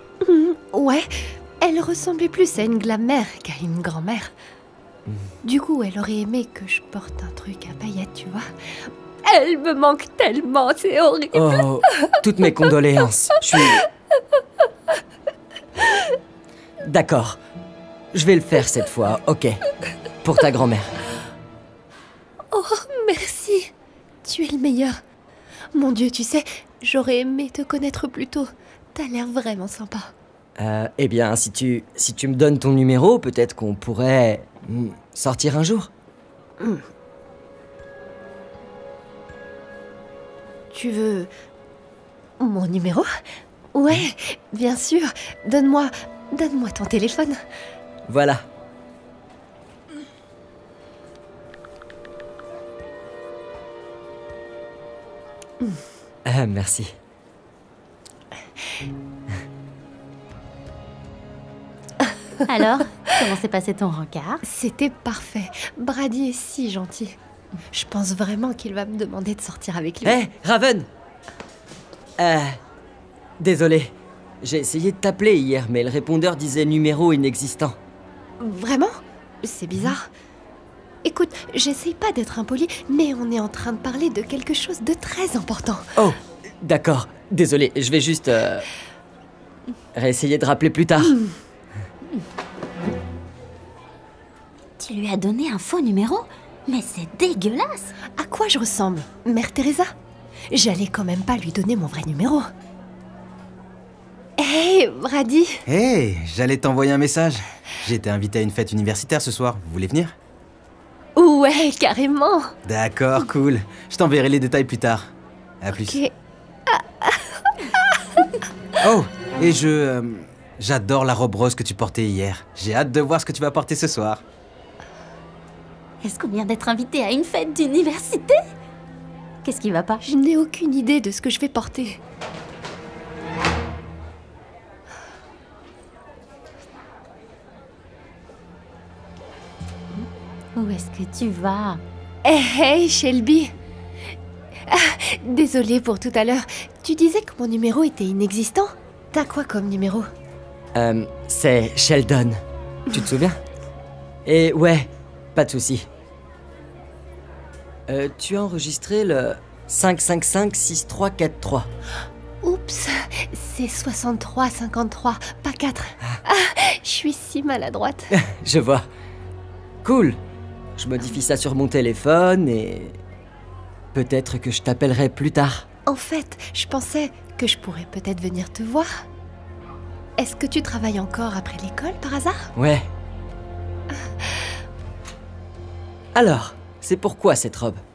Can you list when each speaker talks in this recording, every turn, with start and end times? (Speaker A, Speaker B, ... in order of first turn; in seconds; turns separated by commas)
Speaker A: 0.2-1.1, Speaker A: 1.6-4.3, Speaker A: 5.4-8.4, Speaker A: 9.2-12.1, Speaker B: 11.3-13.8, Speaker B: 16.8-17.4, Speaker B: 18.1-19.6, Speaker B: 20.2-20.9, Speaker A: 22.5-23.7, Speaker A: 24.2-25.0, Speaker A: 25.7-30.1, Speaker B: 30.6-35.9, Speaker A: 40.7-41.3, Speaker A: 42.4-43.1, Speaker A: 43.7-47.4, Speaker B: 48.1-48.4, Speaker B: 56.2-56.9, Speaker C: 62.4-64.4, Speaker A: 64.4-67.2, Speaker A: 67.7-70.2, Speaker B: 70.0-70.9, Speaker B: 72.2-72.6, Speaker B: 73.4-73.9, Speaker B: 74.4-77.8, Speaker A: 78.4-80.1, Speaker A: 81.0-85.9, Speaker B: 86.0-88.7, Speaker B: 89.9-91.2, Speaker C: 94.8-97.9, Speaker A: 98.2-99.9, Speaker A: 100.5-102.5, Speaker A: 104.4-105.6, Speaker D: 105.7-110.1, Speaker A: 111.2-112.5, Speaker D: 112.7-116.0, Speaker A: 115.7-116.1, Speaker A: 116.7-117.7, Speaker D: 118.8-124.2, Speaker C: 126.0-128.4, Speaker C: 129.4-130.0, Speaker A: 130.0-132.0, Speaker C: 140.5-141.8, Speaker A: 142.2-143.5, Speaker A: 144.7-150.1, Speaker B: 150.8-152.4, Speaker B: 152.9-153.4, Speaker B: 154.2-155.8, Speaker B: 157.9-161.7, Speaker A: 162.4-168.1, Speaker B: 168.1-168.8, Speaker B: 169.8-170.2, Speaker B: 170.8-173.0, Speaker B: 173.9-175.7, Speaker A: 175.9-178.9, Speaker A: 180.2-182.5, Speaker B: 182.6-182.9, Speaker B: 186.1-187.8